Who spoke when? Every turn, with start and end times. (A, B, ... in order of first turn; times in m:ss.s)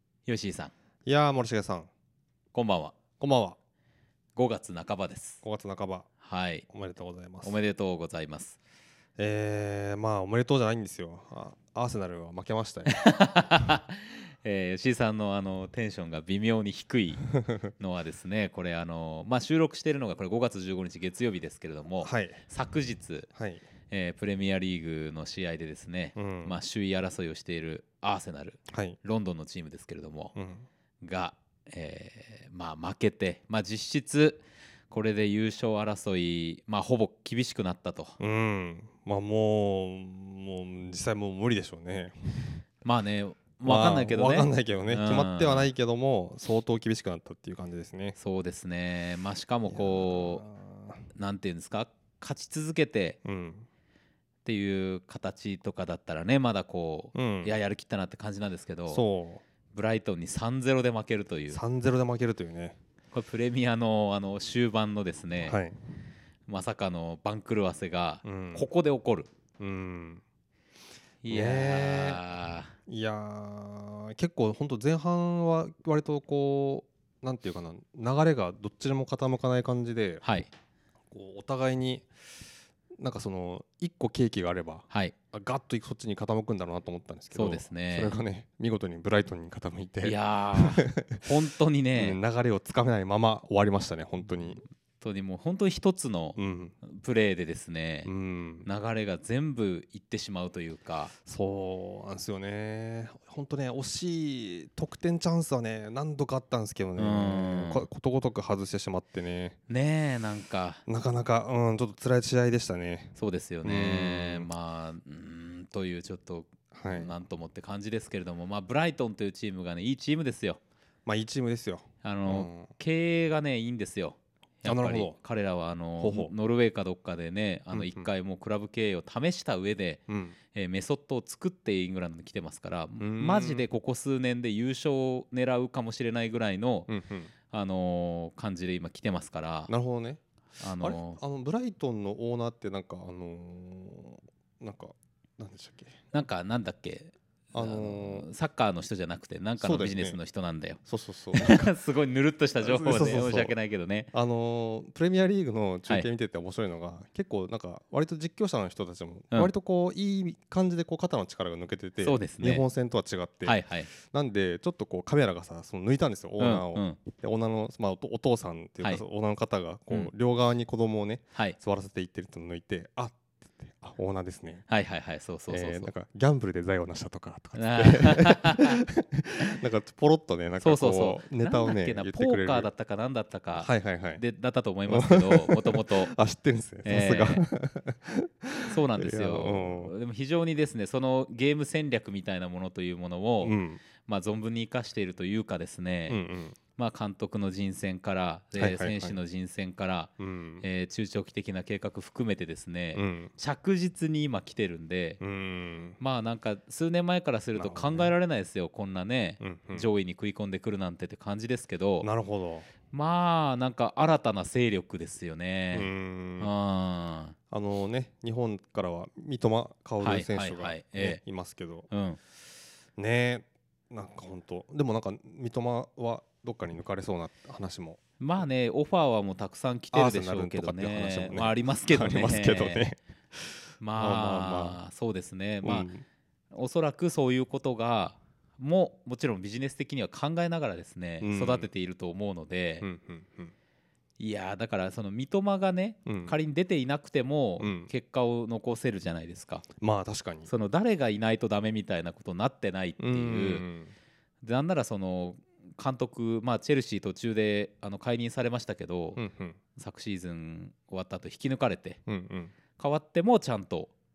0:00.3-0:00.7 A
0:01.0-0:01.9 B
0:02.5-0:03.0 A
0:03.2-0:03.6 B
0:04.4-0:05.4 A
0:05.4-0:06.1 B
0:06.2-0:06.7 A
0:06.7-0:07.6 B
0:07.4-0:08.6 A
0:09.2-0:12.9 B
0:12.9-0:23.3 A
0:17.4-0:17.7 B
0:22.0-0:22.4 B
0:23.4-0:23.6 B
0:23.9-0:30.4 A
0:26.2-0:26.6 B
0:28.7-0:29.0 B
0:30.4-0:30.7 B
0:31.0-0:38.2 A
0:38.2-0:42.6 B
0:42.8-0:45.7 A
0:43.6-0:48.2 B
0:48.2-0:50.4 A
0:49.7-0:51.0 B
0:51.1-0:53.2 A
0:53.2-0:53.7 B
0:54.4-0:59.0 A
0:57.2-0:57.5 B
0:58.9-0:59.4 B
0:59.7-1:01.6 A
1:01.5-1:02.8 B
1:03.1-1:05.6 A
1:05.4-1:05.7 B
1:06.5-1:09.3 A
1:08.2-1:08.7 B
1:09.6-1:10.2 B
1:11.2-1:12.7 A
1:11.3-1:12.2 B
1:12.9-1:20.2 B
1:20.2-1:20.5 A
1:21.1-1:22.1 B
1:23.0-1:31.3 B
1:27.3-1:28.2 A
1:30.0-1:32.2 A
1:32.0-1:34.6 B
1:35.0-1:38.1 A
1:36.4-1:36.8 B
1:38.0-1:38.7 B
1:38.6-1:41.1 A
1:41.3-1:49.6 B
1:47.0-1:47.9 A
1:49.7-1:50.8 A
1:50.9-1:54.5 B
1:53.2-2:00.6 A
1:56.7-1:57.1 B
2:01.1-2:02.7 B
2:02.0-2:10.0 A
2:04.6-2:05.2 B
2:06.0-2:06.3 B
2:07.7-2:08.1 B
2:10.1-2:10.4 B
2:10.5-2:16.9 A
2:13.0-2:13.7 B
2:16.9-2:17.3 B
2:17.5-2:19.7 A
2:19.7-2:20.2 B
2:20.6-2:21.2 A
2:20.8-2:26.0 B
2:26.1-2:30.8 A
2:27.5-2:28.3 B
2:29.6-2:30.2 B
2:30.9-2:31.7 B
2:31.3-2:34.1 A
2:32.6-2:33.6 B
2:34.1-2:54.7 B
2:42.0-2:42.6 A
2:43.4-2:43.9 A
2:46.4-2:47.0 A
2:54.7-2:55.9 A
2:55.5-3:02.7 B
2:57.6-2:58.8 A
3:00.6-3:06.1 A
3:03.6-3:04.2 B
3:04.9-3:09.9 B
3:06.8-3:07.5 A
3:08.7-3:16.2 A
3:13.4-3:13.8 B
3:16.1-3:16.6 B
3:16.8-3:25.2 A
3:18.6-3:19.2 B
3:20.2-3:20.6 B
3:22.9-3:23.3 B
3:25.2-3:26.0 B
3:26.0-3:32.1 A
3:27.6-3:28.1 B
3:29.4-3:29.9 B
3:32.0-3:32.7 B
3:32.9-3:37.4 A
3:35.7-3:36.5 B
3:37.5-3:41.9 B
3:40.0-3:41.2 A
3:41.9-3:42.2 A
3:43.0-3:48.4 B
3:48.2-3:52.9 A
3:49.9-3:54.8 B
3:53.8-3:55.9 A
3:55.6-3:56.0 B
3:56.5-4:02.9 A
4:01.2-4:01.7 B
4:02.8-4:03.5 B
4:04.2-4:09.7 A
4:06.1-4:06.4 B
4:07.6-4:07.9 B
4:09.8-4:10.5 B
4:10.5-4:13.7 A
4:13.0-4:13.9 B
4:14.4-4:19.2 A
4:19.2-4:19.6 B
4:19.8-4:22.0 A
4:22.1-4:22.5 B
4:22.8-4:23.9 A